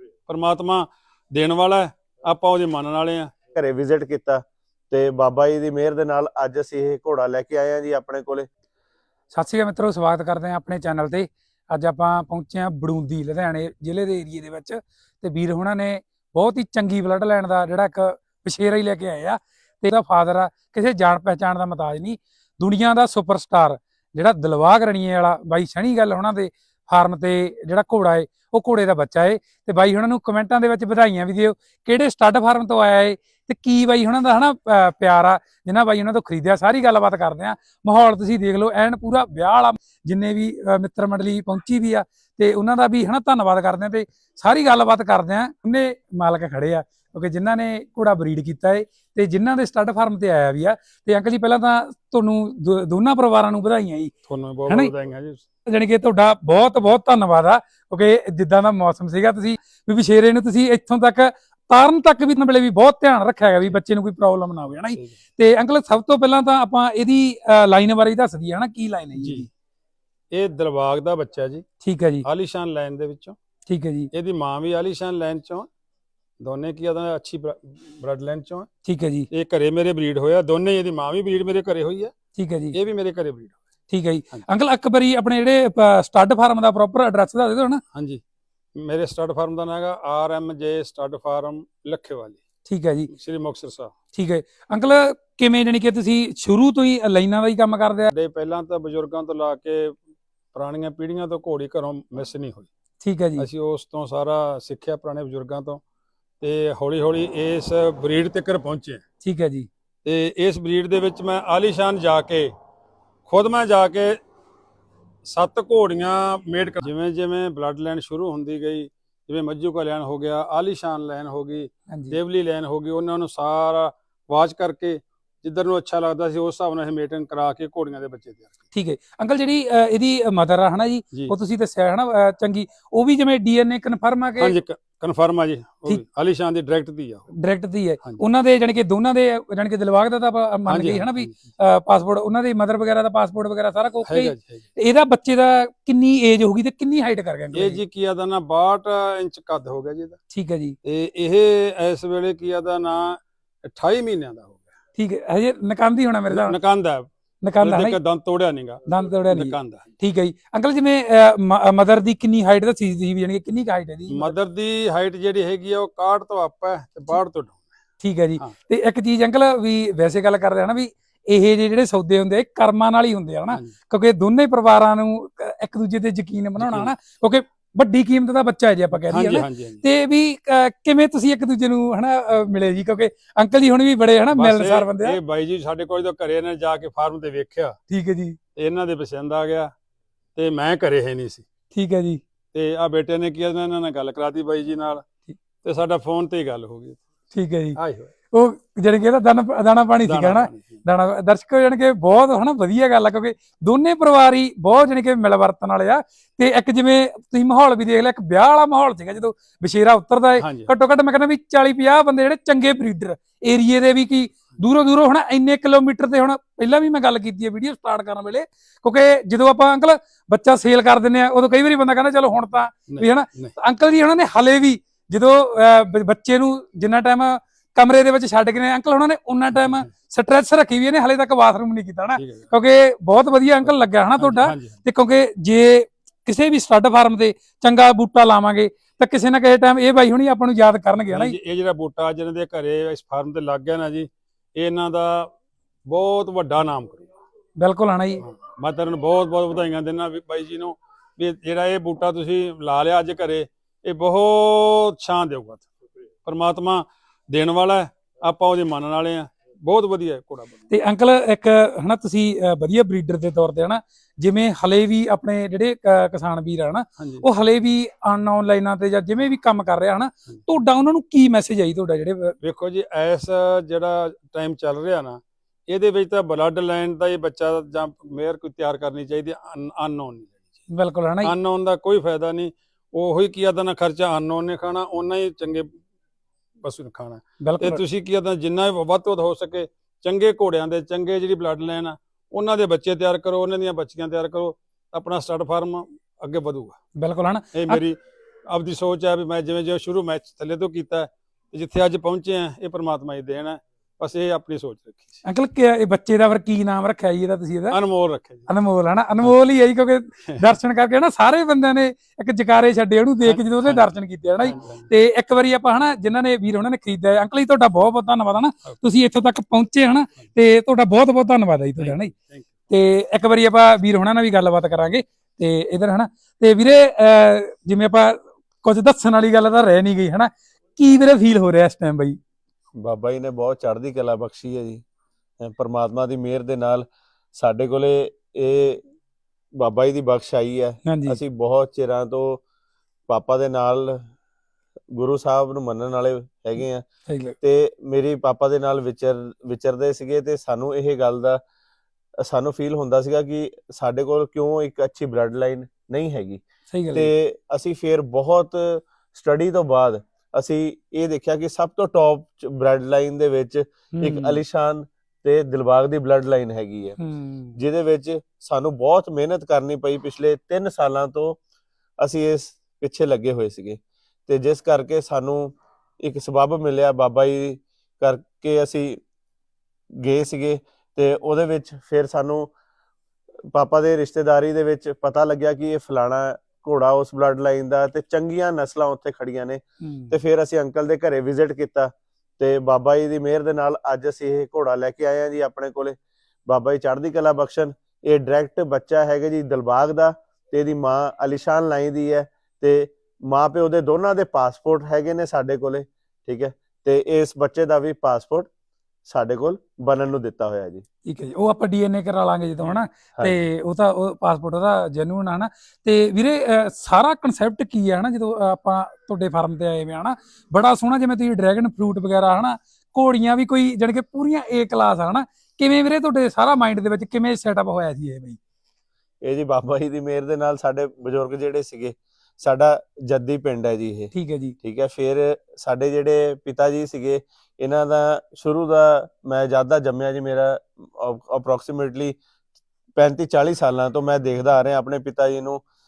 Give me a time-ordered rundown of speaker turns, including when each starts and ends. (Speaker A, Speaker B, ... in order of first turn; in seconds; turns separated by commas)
Speaker A: 0.3-3.3, Speaker B: 3.5-8.5, Speaker C: 9.3-54.1, Speaker A: 54.3-55.4, Speaker C: 55.7-69.5, Speaker A: 69.2-69.5, Speaker A: 70.3-71.7, Speaker C: 71.8-72.3, Speaker A: 72.2-73.4, Speaker C: 73.7-74.1, Speaker A: 74.1-75.7, Speaker A: 76.4-78.7, Speaker C: 78.8-79.3, Speaker A: 79.3-82.1, Speaker C: 82.4-82.8, Speaker A: 82.7-83.6, Speaker C: 83.9-87.8, Speaker A: 87.9-88.2, Speaker A: 88.8-92.4, Speaker C: 92.7-93.1, Speaker A: 93.1-93.9, Speaker C: 94.1-98.1, Speaker A: 98.1-100.0, Speaker A: 100.5-102.7, Speaker C: 103.0-103.5, Speaker A: 103.4-105.8, Speaker A: 106.4-109.0, Speaker C: 109.2-109.7, Speaker A: 110.0-112.5, Speaker A: 113.3-114.2, Speaker A: 115.3-128.5, Speaker C: 121.9-122.2, Speaker C: 128.7-134.6, Speaker A: 134.4-137.3, Speaker C: 137.3-147.8, Speaker A: 140.7-141.3, Speaker A: 144.1-144.7, Speaker A: 147.5-150.2, Speaker C: 150.3-150.8, Speaker A: 150.8-154.7, Speaker C: 155.0-156.6, Speaker A: 156.3-157.1, Speaker C: 157.4-158.0, Speaker A: 157.6-159.9, Speaker C: 158.9-164.3, Speaker A: 164.1-167.6, Speaker C: 168.0-185.2, Speaker A: 176.6-176.9, Speaker A: 179.1-179.8, Speaker A: 184.3-187.8, Speaker C: 187.9-188.4, Speaker A: 188.6-189.7, Speaker A: 190.4-191.4, Speaker C: 191.7-192.2, Speaker A: 192.5-195.0, Speaker A: 195.6-197.0, Speaker C: 197.3-197.8, Speaker A: 197.8-198.1, Speaker C: 198.3-241.4, Speaker A: 200.0-200.8, Speaker A: 210.4-210.7, Speaker A: 222.9-223.5, Speaker A: 232.2-232.5, Speaker A: 233.7-234.8, Speaker A: 241.1-245.3, Speaker A: 245.9-247.1, Speaker C: 247.6-248.2, Speaker A: 248.2-255.7, Speaker A: 256.2-260.7, Speaker C: 260.7-272.4, Speaker A: 267.0-267.3, Speaker A: 272.4-280.5, Speaker C: 280.7-281.3, Speaker A: 281.2-285.7, Speaker A: 286.6-296.8, Speaker C: 287.4-287.8, Speaker C: 297.0-297.8, Speaker A: 297.5-298.0, Speaker A: 298.5-305.2, Speaker C: 305.2-307.8, Speaker A: 307.7-308.5, Speaker C: 308.5-322.1, Speaker A: 313.2-313.9, Speaker A: 314.4-314.9, Speaker A: 321.8-322.5, Speaker C: 322.7-332.2, Speaker B: 332.8-334.8, Speaker B: 335.4-338.8, Speaker B: 339.6-342.4, Speaker C: 340.9-341.2, Speaker B: 343.1-344.0, Speaker B: 344.9-346.9, Speaker C: 347.1-347.4, Speaker B: 347.4-351.4, Speaker B: 352.2-356.4, Speaker C: 356.7-357.1, Speaker B: 356.9-367.0, Speaker C: 363.9-364.4, Speaker C: 367.0-367.6, Speaker B: 367.6-371.4, Speaker B: 372.0-379.0, Speaker B: 380.0-382.5, Speaker B: 383.5-408.5, Speaker C: 389.8-390.2, Speaker B: 409.1-410.9, Speaker C: 411.1-428.4, Speaker B: 429.2-442.2, Speaker C: 434.1-434.6, Speaker B: 443.0-445.6